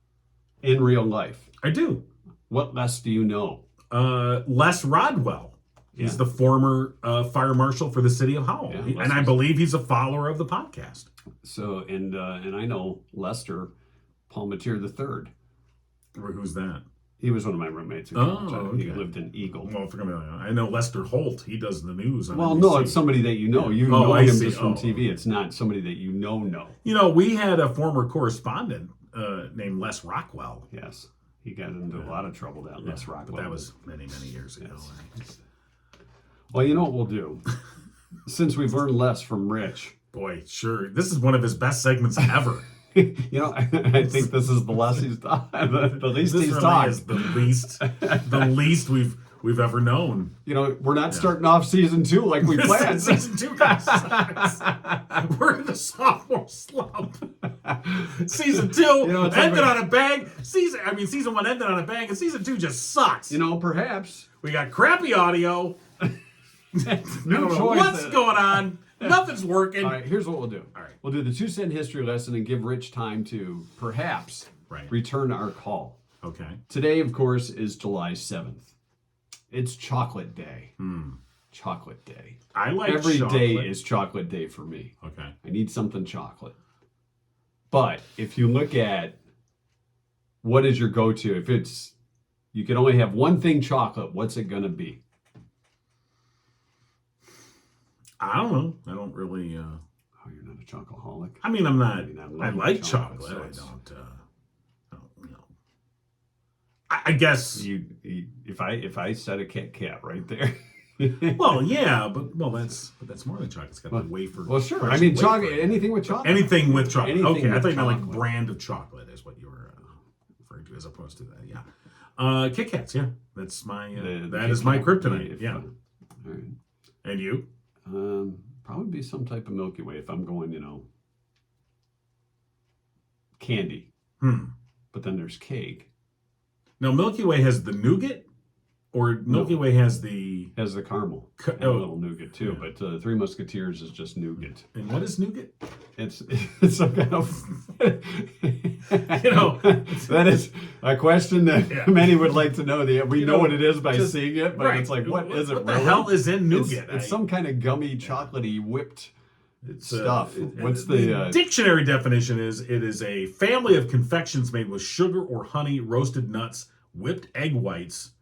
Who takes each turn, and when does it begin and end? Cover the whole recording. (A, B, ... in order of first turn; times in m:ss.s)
0:00.6-0:01.5 A
0:01.6-0:02.0 B
0:02.5-0:03.6 A
0:03.9-0:11.1 B
0:08.6-0:09.4 A
0:11.4-0:13.7 A
0:14.3-0:15.3 A
0:16.1-0:16.8 B
0:17.2-0:19.7 A
0:18.1-0:19.0 B
0:19.6-0:23.0 B
0:22.3-0:26.8 A
0:23.6-0:25.0 B
0:26.8-0:30.7 B
0:30.7-0:33.7 A
0:32.8-0:35.1 B
0:36.5-0:37.5 A
0:38.3-0:39.9 A
0:40.1-0:42.7 B
0:42.9-0:48.5 A
0:45.9-0:50.3 B
0:50.4-0:55.0 A
0:52.4-1:03.4 B
0:59.0-0:59.8 A
1:03.3-1:04.3 A
1:04.4-1:05.8 B
1:06.7-1:10.0 B
1:07.0-1:09.2 A
1:09.8-1:16.0 A
1:16.2-1:16.6 B
1:16.7-1:18.7 A
1:19.5-1:20.7 A
1:20.8-1:21.2 B
1:21.5-1:26.5 A
1:22.5-1:23.7 B
1:25.0-1:25.3 B
1:27.7-1:29.2 A
1:30.4-1:31.9 A
1:32.5-1:35.0 A
1:38.2-1:39.8 B
1:40.2-1:43.7 A
1:41.4-1:44.2 B
1:44.9-1:45.4 B
1:46.9-1:47.7 B
1:47.5-1:51.6 A
1:51.3-1:59.9 B
1:53.9-1:58.2 A
2:00.4-2:01.6 B
2:02.2-2:05.6 B
2:03.9-2:05.7 A
2:06.2-2:06.6 A
2:07.0-2:07.4 B
2:07.8-2:10.8 A
2:13.4-2:13.9 A
2:14.2-2:14.5 B
2:14.9-2:15.9 A
2:16.8-2:18.3 B
2:18.9-2:20.5 B
2:19.3-2:19.6 A
2:20.5-2:24.7 A
2:21.4-2:21.9 B
2:24.7-2:25.5 B
2:26.0-2:39.1 A
2:29.0-2:30.4 B
2:31.7-2:32.4 B
2:33.1-2:37.2 B
2:39.6-2:48.1 B
2:39.8-2:41.4 A